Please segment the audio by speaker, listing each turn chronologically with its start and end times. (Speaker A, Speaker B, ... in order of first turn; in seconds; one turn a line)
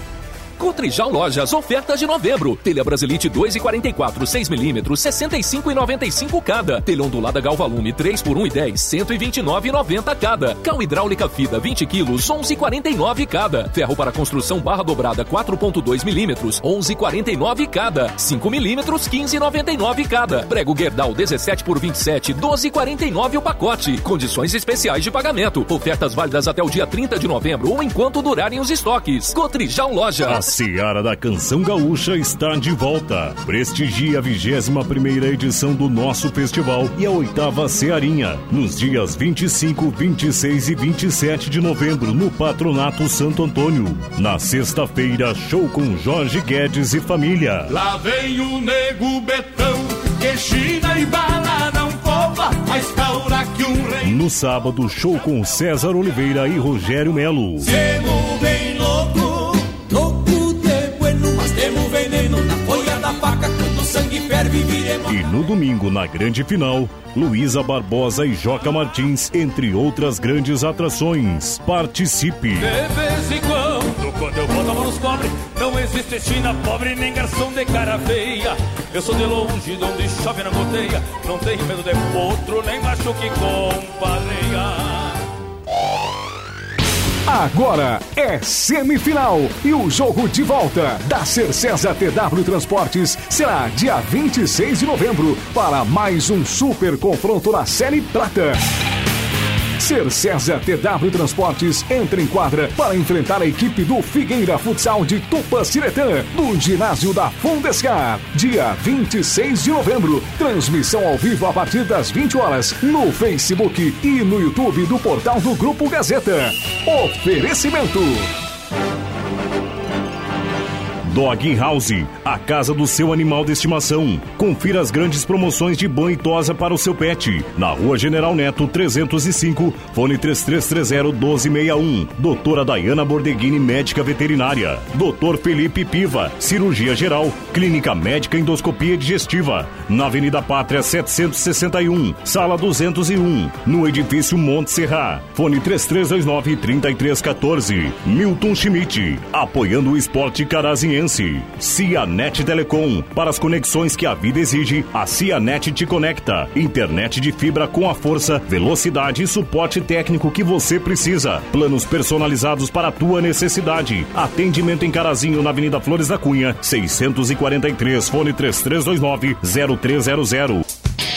Speaker A: 0.6-30.4
Speaker B: 30.3-47.7
Speaker C: 47.7-54.2
Speaker B: 54.0-57.7
Speaker C: 57.6-65.2
Speaker B: 65.1-72.7
Speaker C: 72.6-85.1
Speaker D: 87.3-98.6
Speaker D: 99.8-118.3
Speaker B: 121.1-170.6